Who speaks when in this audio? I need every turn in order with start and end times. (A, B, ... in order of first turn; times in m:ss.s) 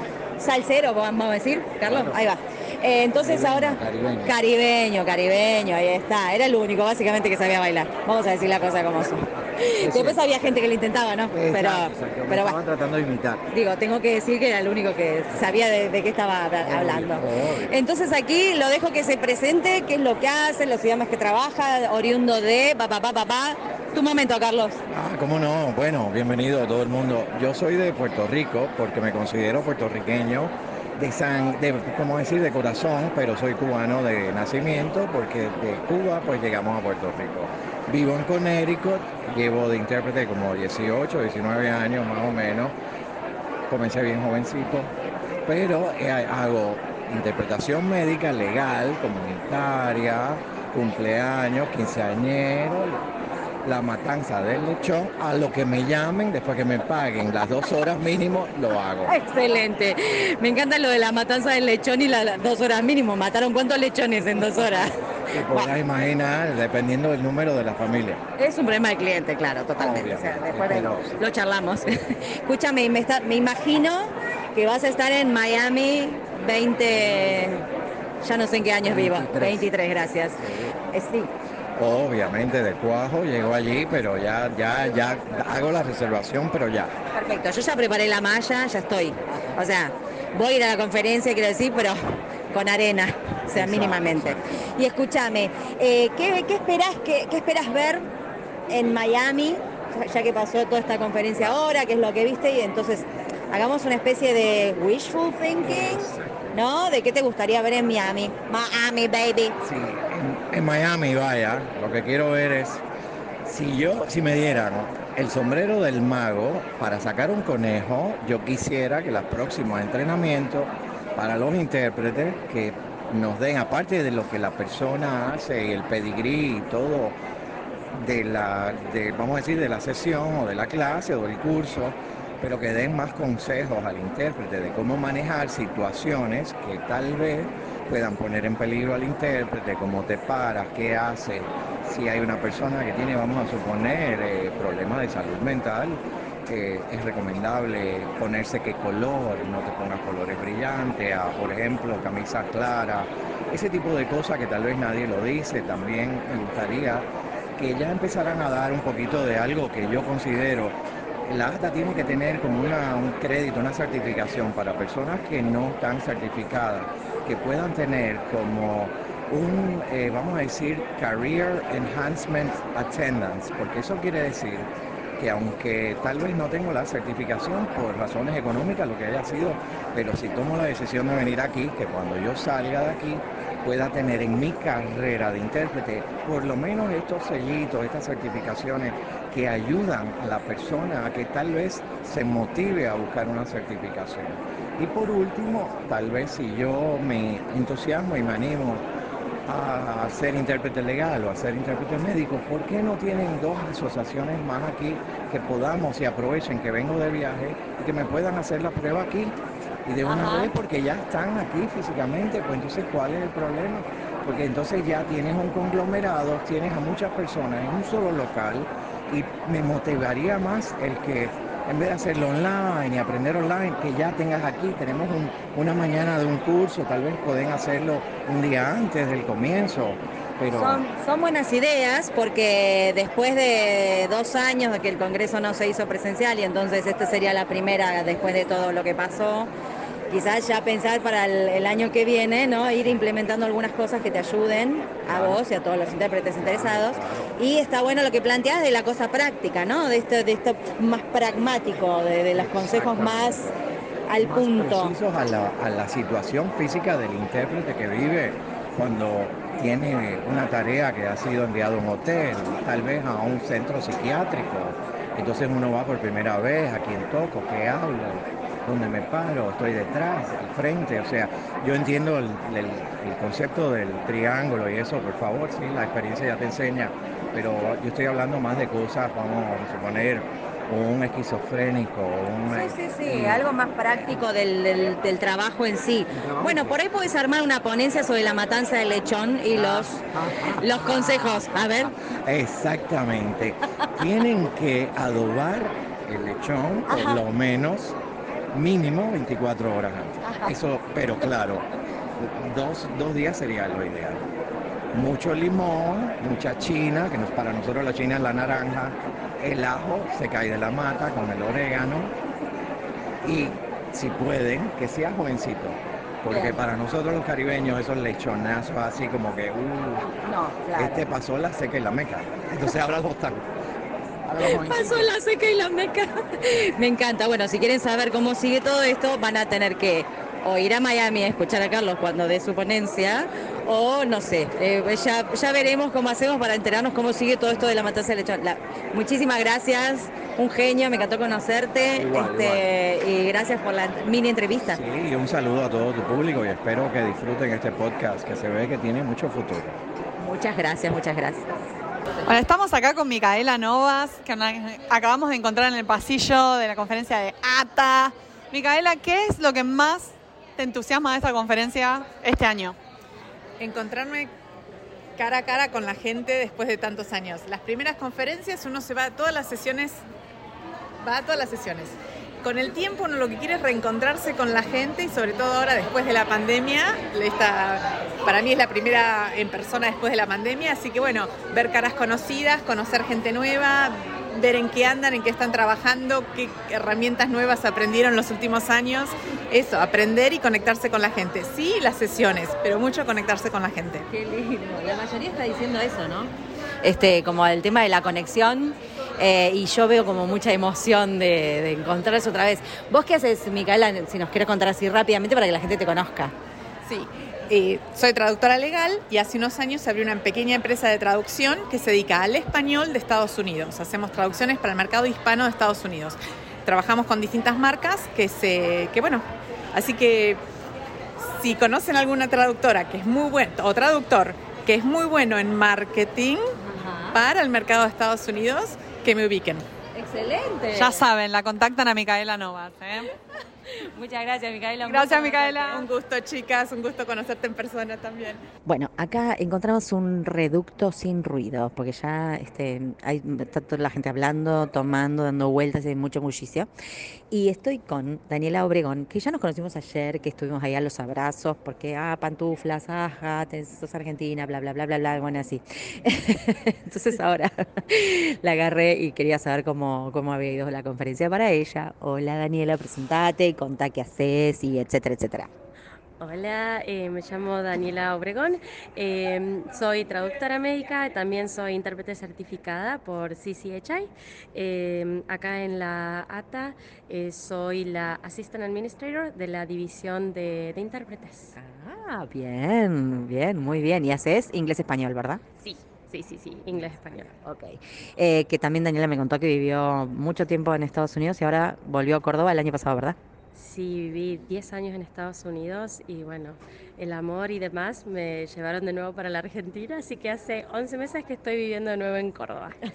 0:00.4-0:12.6 A
0:01.8-0:02.1 B
0:03.2-0:04.3 B
0:09.8-0:10.5 B
0:11.3-0:13.4 B
0:13.5-0:24.8 A
0:16.6-0:17.7 B
0:24.9-0:42.7 B
0:43.7-0:44.9 B
0:45.5-0:53.0 B
0:53.6-0:59.1 B
0:59.1-1:04.9 A
1:04.4-1:08.2 B
1:08.4-1:17.6 A
1:09.8-1:11.2 B
1:18.2-1:21.3 A
1:18.8-1:19.6 B
1:20.4-1:20.7 B
1:21.8-1:26.9 B
1:27.1-1:32.0 A
1:32.5-1:38.0 A
1:33.5-1:34.4 B
1:38.7-1:49.5 A
1:45.6-1:46.5 B
1:49.6-1:52.8 B
1:53.4-2:07.2 B
2:07.9-2:37.0 B
2:37.6-2:40.7 B
2:41.3-2:54.7 B
2:55.2-3:18.8 B
3:19.5-3:29.3 B
3:29.8-3:50.8 B
3:30.1-3:30.5 A
3:50.5-3:59.5 A
4:00.1-4:13.5 A
4:05.1-4:05.4 B
4:06.4-4:07.3 B
4:12.3-4:13.5 B
4:14.1-4:14.9 A
4:14.2-4:43.4 B
4:42.5-4:50.0 A
4:46.2-4:46.7 B
4:49.5-4:51.7 B
4:50.6-4:51.9 A
4:52.2-4:57.9 B
4:58.5-5:01.6 B
5:02.2-5:04.2 B
5:04.9-5:12.1 B
5:13.2-5:20.1 B
5:20.8-5:23.4 B
5:24.3-5:25.1 B
5:24.4-5:44.8 A
5:42.0-5:42.6 B
5:44.7-5:49.8 B
5:50.2-5:51.4 A
5:52.2-6:02.8 C
6:03.6-6:04.3 D
6:05.2-6:10.0 D
6:11.0-6:34.0 D
6:34.3-6:34.8 E
6:34.4-6:36.0 A
6:35.7-6:36.2 E
6:36.9-6:37.9 E
6:38.0-6:39.5 A
6:39.6-6:44.7 E
6:44.2-6:46.2 A
6:46.8-7:00.4 D
7:01.2-7:06.5 D
7:06.7-7:07.0 E
7:07.1-7:09.6 D
7:10.0-7:11.0 E
7:10.7-7:13.0 C
7:14.0-7:15.6 E
7:14.9-7:15.8 C
7:15.5-7:18.4 D
7:18.7-7:26.7 E
7:27.3-7:35.6 E
7:36.9-7:37.5 E
7:38.4-7:45.5 E
7:46.2-8:01.5 F
8:01.6-8:05.4 E
8:05.6-8:07.3 F
8:06.7-8:13.1 E
8:13.5-8:22.8 F